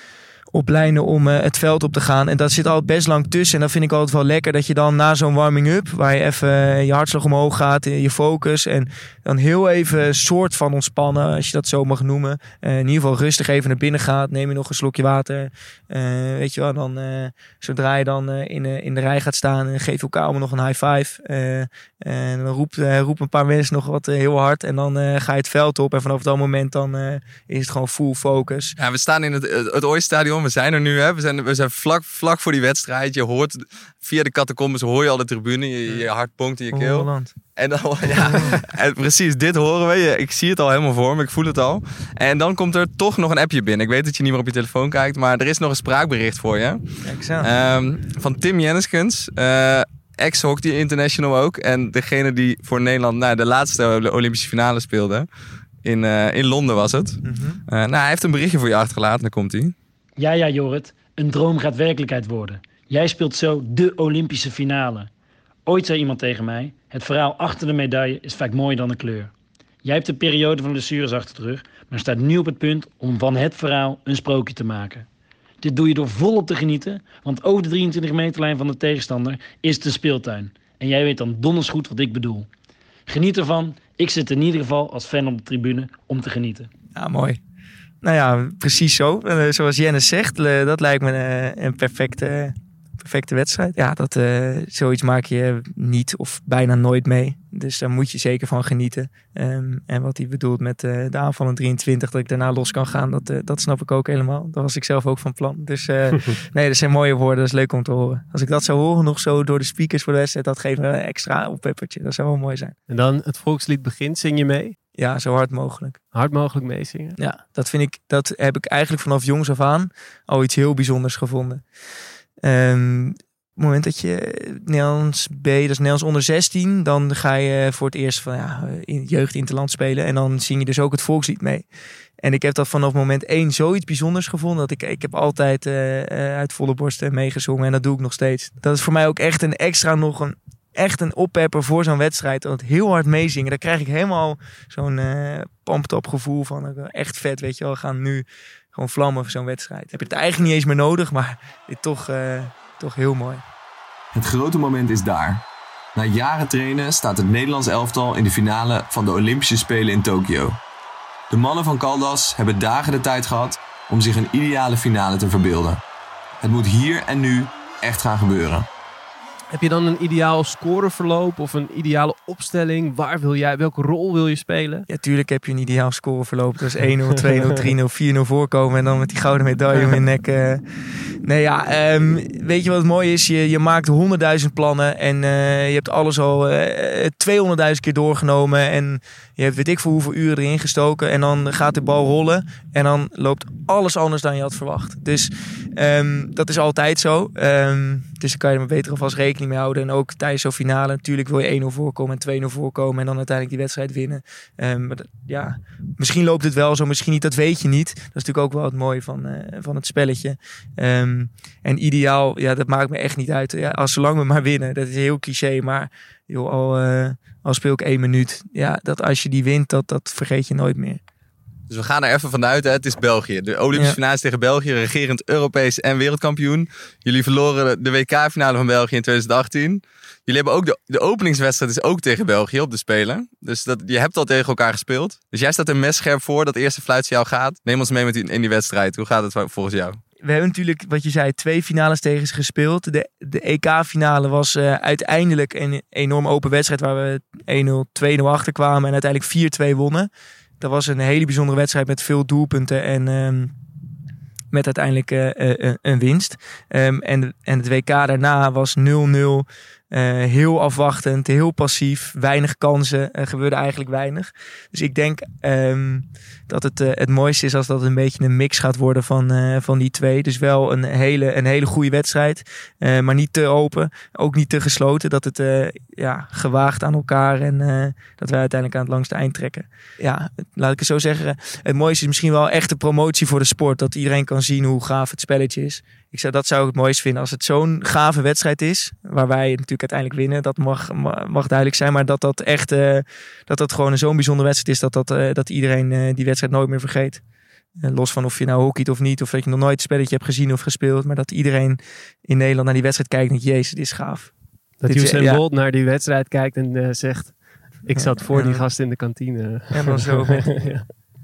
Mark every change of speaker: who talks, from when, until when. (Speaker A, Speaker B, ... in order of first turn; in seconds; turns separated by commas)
Speaker A: 0.5-28.8, Speaker B: 28.8-55.3, Speaker A: 36.7-37.3, Speaker A: 38.1-38.5, Speaker A: 47.0-47.5, Speaker B: 55.8-59.8, Speaker A: 57.2-57.6, Speaker C: 60.2-65.1, Speaker C: 65.7-69.3, Speaker C: 69.8-75.1, Speaker C: 75.6-82.5, Speaker C: 83.1-86.7, Speaker A: 87.0-87.4, Speaker A: 88.0-112.8, Speaker D: 112.9-114.8, Speaker A: 115.0-116.0, Speaker D: 116.1-117.2, Speaker A: 117.2-121.6, Speaker A: 122.4-131.7, Speaker A: 132.2-153.4, Speaker E: 154.1-160.6, Speaker E: 161.3-165.8, Speaker E: 166.4-168.7, Speaker D: 169.5-174.9, Speaker A: 174.9-180.6, Speaker A: 181.2-221.0, Speaker B: 221.7-240.0, Speaker A: 240.2-250.1, Speaker A: 250.6-253.5, Speaker A: 254.5-297.2, Speaker A: 297.8-304.3, Speaker D: 304.8-310.9, Speaker A: 304.9-305.4, Speaker A: 308.0-308.6, Speaker A: 309.7-310.5